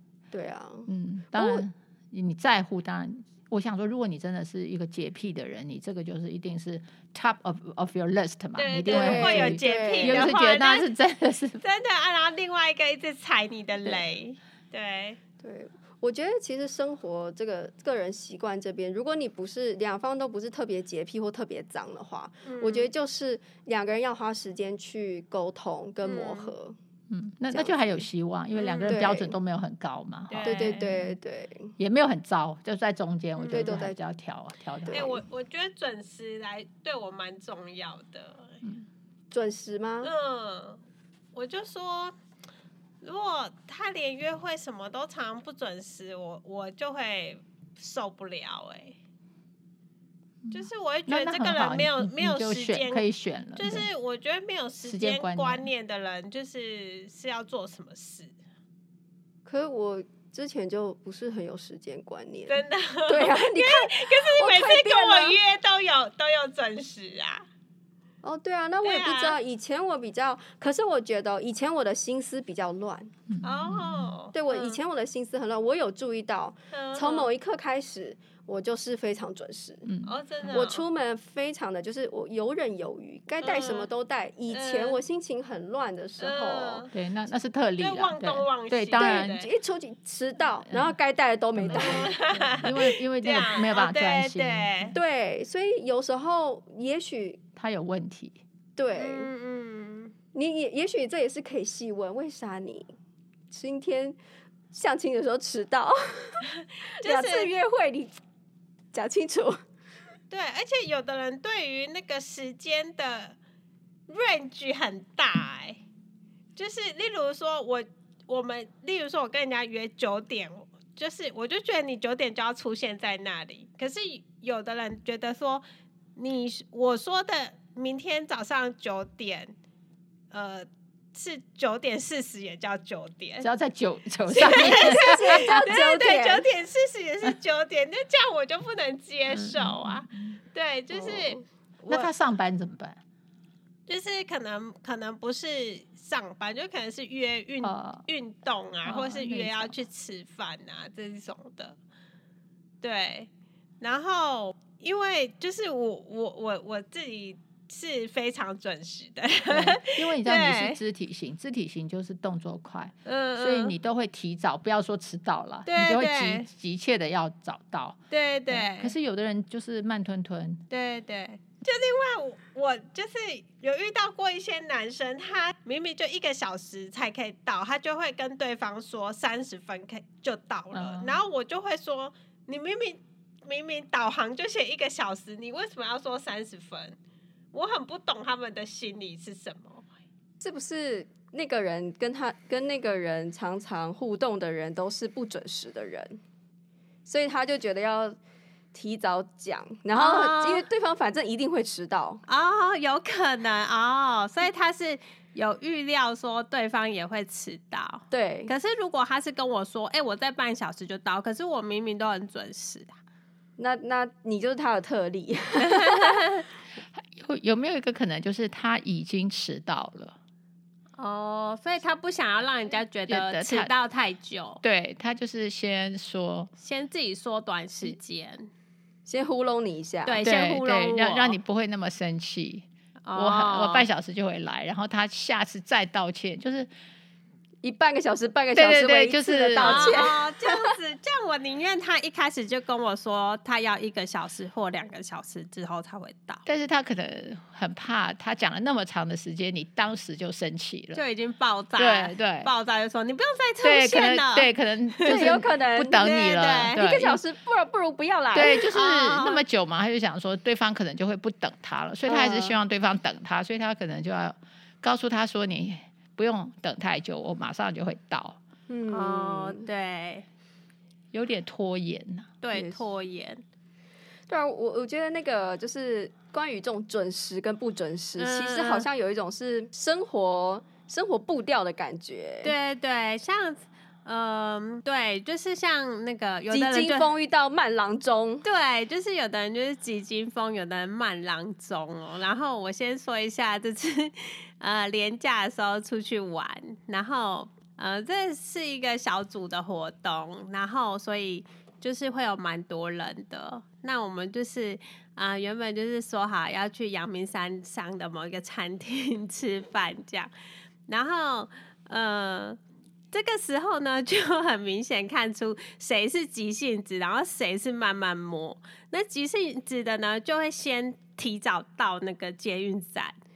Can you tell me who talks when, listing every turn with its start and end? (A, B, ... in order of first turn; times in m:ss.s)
0:00.3-0:01.6 A
0:00.9-0:11.6 B
0:08.6-0:10.9 C
0:08.9-0:10.3 A
0:11.6-0:15.2 C
0:15.4-0:26.8 A
0:22.4-0:22.9 C
0:26.0-0:26.5 C
0:27.1-0:31.1 B
0:27.5-0:28.0 A
0:28.5-0:29.0 C
0:28.9-0:29.3 A
0:30.3-0:30.9 C
0:30.4-0:31.7 A
0:31.8-0:35.1 B
0:33.4-0:33.8 C
0:33.5-0:34.0 A
0:34.8-0:35.2 A
0:34.9-0:38.6 C
0:39.3-0:40.1 A
0:40.0-0:40.8 C
0:41.3-0:42.1 C
0:43.0-0:49.0 C
0:50.4-0:53.9 B
0:50.5-0:58.3 C
0:54.8-0:55.7 B
0:59.4-1:05.4 A
1:02.5-1:07.4 C
1:08.2-1:13.1 A
1:08.8-1:09.4 C
1:13.3-1:14.1 B
1:13.4-1:14.8 C
1:14.3-1:19.9 A
1:16.7-1:17.3 C
1:19.9-1:20.2 B
1:20.0-1:20.8 C
1:20.5-1:26.8 A
1:23.4-1:23.9 C
1:24.5-1:25.0 C
1:26.2-1:26.9 C
1:26.9-1:29.4 B
1:27.8-1:29.5 C
1:28.9-1:32.2 A
1:30.7-1:30.9 B
1:31.6-1:34.9 B
1:31.7-1:35.0 C
1:34.9-1:37.4 A
1:37.6-1:38.4 B
1:38.8-1:39.3 A
1:38.9-1:40.1 C
1:40.3-1:42.9 A
1:43.5-1:44.2 A
1:44.7-1:46.4 A
1:46.5-1:47.5 C
1:47.0-1:48.2 A
1:48.9-1:49.6 A
1:50.3-1:53.4 C
1:54.1-1:55.8 C
1:56.6-2:05.6 C
2:06.2-2:09.5 C
2:10.3-2:13.5 C
2:13.4-2:15.6 B
2:14.3-2:22.1 C
2:14.4-2:16.4 A
2:19.3-2:20.4 B
2:20.9-2:21.4 A
2:21.9-2:23.0 B
2:23.9-2:31.8 C
2:27.6-2:28.0 B
2:28.8-2:29.8 B
2:32.8-2:33.3 C
2:33.8-2:40.8 C
2:39.5-2:48.0 B
2:43.0-2:43.7 C
2:45.7-2:46.5 C
2:48.1-2:48.9 C
2:48.5-2:50.6 B
2:50.7-3:07.0 C
3:00.7-3:01.2 B
3:07.5-3:09.8 C
3:10.4-3:16.2 A
3:17.0-3:18.2 A
3:18.7-3:22.2 A
3:19.9-3:20.6 C
3:22.3-3:33.0 C
3:28.1-3:28.5 A
3:33.6-3:36.2 A
3:35.7-3:36.4 C
3:36.9-3:40.2 B
3:41.0-3:44.6 C
3:43.1-3:43.7 B
3:44.6-3:46.5 B
3:46.6-3:48.5 C
3:49.0-3:50.2 A
3:50.0-3:51.4 C
3:50.2-3:56.7 B
3:53.0-3:53.9 C
3:57.6-4:00.7 A
3:58.5-4:00.1 B
3:59.6-4:06.4 C
4:06.4-4:11.0 B
4:10.9-4:15.4 C
4:11.8-4:12.5 B
4:13.6-4:17.2 B
4:15.0-4:16.1 A
4:16.0-4:16.9 C
4:16.7-4:18.7 A
4:18.3-4:28.4 B
4:18.5-4:19.4 C
4:22.0-4:22.6 A
4:28.7-4:29.6 A
4:28.9-4:30.2 C
4:31.1-4:32.3 B
4:32.4-4:33.4 C
4:32.5-4:32.8 A
4:34.3-4:42.5 A
4:38.2-4:38.8 C
4:42.4-4:47.1 C
4:46.5-4:48.4 A
4:48.4-5:10.3 C
5:10.9-5:12.6 C
5:13.1-5:23.1 C